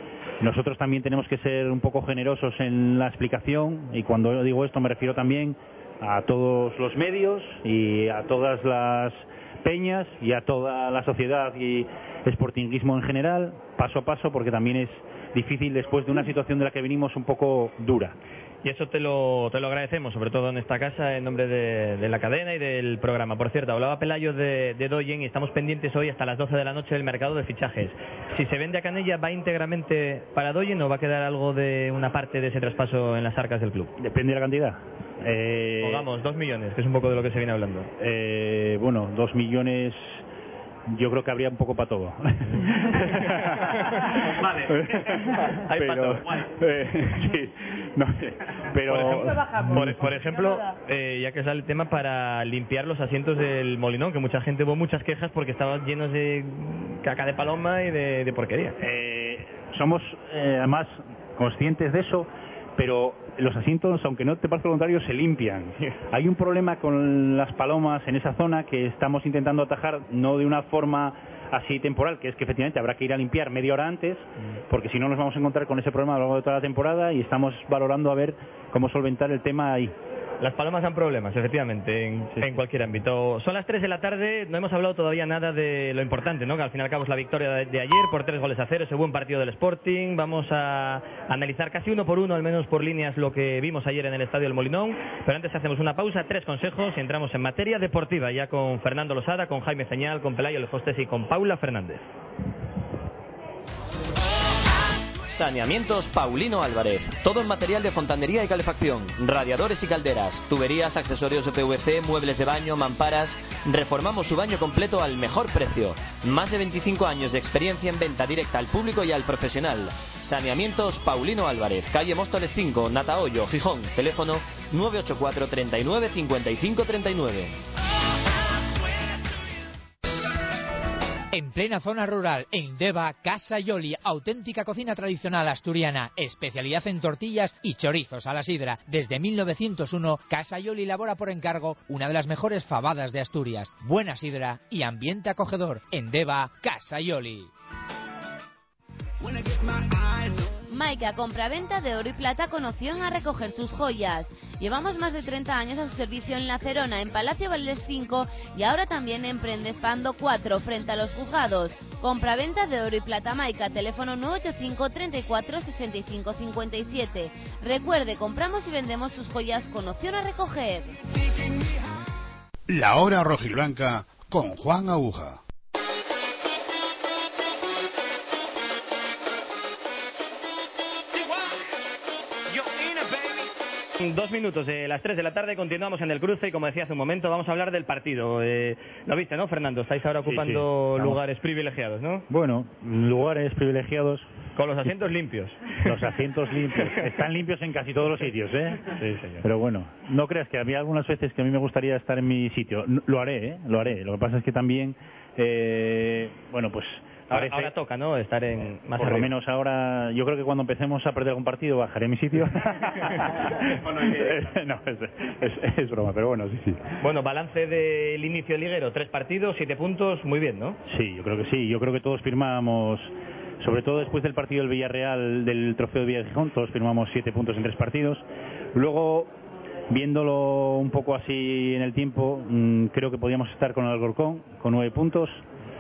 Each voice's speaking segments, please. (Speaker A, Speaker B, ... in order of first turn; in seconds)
Speaker A: 0.4-18.2, 34.0-36.1, 38.0-40.2, 40.9-50.1, 58.8-79.9, 190.2-191.2, 192.3-194.3, 195.8-207.7, 209.0-216.8, 220.9-229.3, 229.9-235.4
Speaker B: 18.6-33.9, 35.8-37.9, 43.2-46.5, 48.9-58.8, 80.4-102.0, 184.0-192.3, 194.6-196.0, 199.0-199.4, 207.3-209.3, 217.0-220.8
Speaker C: 105.3-127.5
Speaker D: 131.3-147.5
Speaker E: 150.7-171.0
Speaker F: 172.7-175.4